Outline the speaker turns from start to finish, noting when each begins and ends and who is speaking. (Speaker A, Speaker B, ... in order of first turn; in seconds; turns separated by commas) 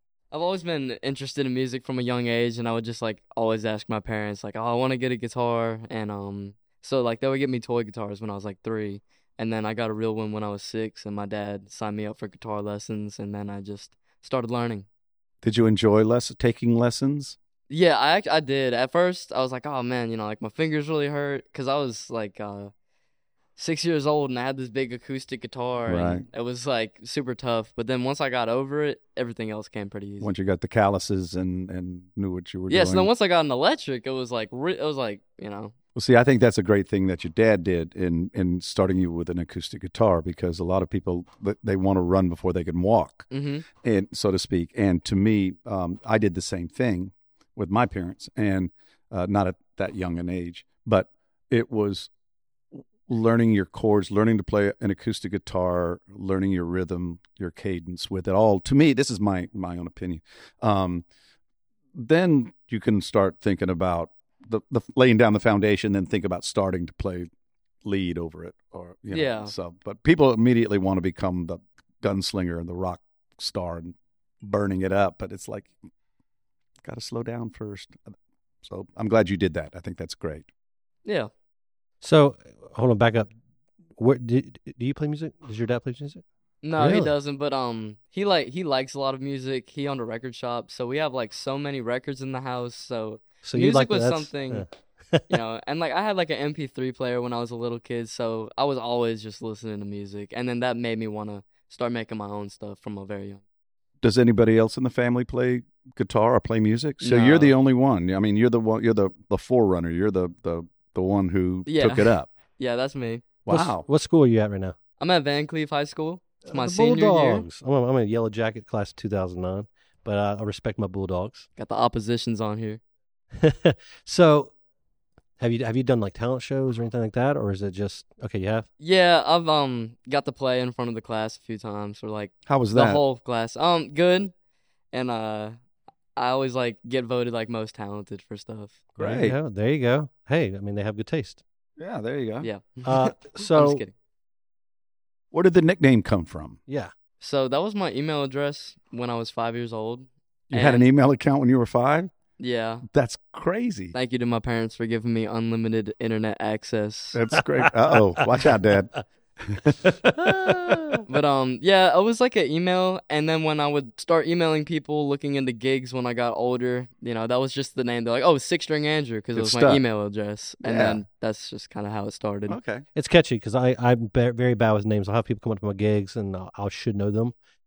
Speaker A: 0.3-14.9, Speaker B: 15.4-17.4, Speaker A: 17.7-22.7, Speaker A: 23.6-30.3, Speaker B: 25.9-26.3, Speaker B: 30.2-33.1, Speaker A: 32.7-35.7, Speaker B: 36.0-43.3, Speaker A: 43.3-43.6, Speaker B: 43.8-52.1, Speaker B: 52.7-61.0, Speaker B: 62.0-67.3, Speaker B: 67.8-75.7, Speaker A: 69.1-69.5, Speaker B: 76.8-78.0, Speaker B: 78.6-80.5, Speaker A: 81.0-81.3, Speaker C: 82.0-83.3, Speaker C: 84.0-86.2, Speaker A: 86.6-94.7, Speaker C: 86.8-87.1, Speaker C: 93.4-95.4, Speaker A: 95.3-103.4, Speaker B: 104.0-112.3, Speaker A: 107.0-107.5, Speaker A: 111.7-113.2, Speaker B: 113.5-113.8, Speaker C: 113.5-114.8, Speaker A: 115.0-117.5, Speaker C: 116.5-121.5, Speaker A: 121.6-122.8, Speaker C: 123.4-124.5, Speaker C: 125.4-128.7, Speaker A: 128.8-134.3, Speaker B: 132.5-133.0, Speaker A: 134.9-135.6, Speaker A: 136.2-138.8, Speaker C: 139.0-141.4, Speaker B: 139.0-139.4, Speaker B: 141.8-142.5, Speaker A: 142.4-143.9, Speaker C: 142.8-143.8, Speaker B: 145.3-146.6, Speaker A: 147.2-150.9, Speaker B: 150.5-152.1, Speaker A: 152.4-152.8, Speaker B: 152.9-153.9, Speaker A: 153.9-157.2, Speaker B: 157.1-161.0, Speaker C: 157.6-158.6, Speaker C: 159.8-161.0, Speaker A: 161.1-172.6, Speaker B: 169.3-169.8, Speaker B: 170.6-171.0, Speaker B: 172.5-172.8, Speaker C: 172.9-177.3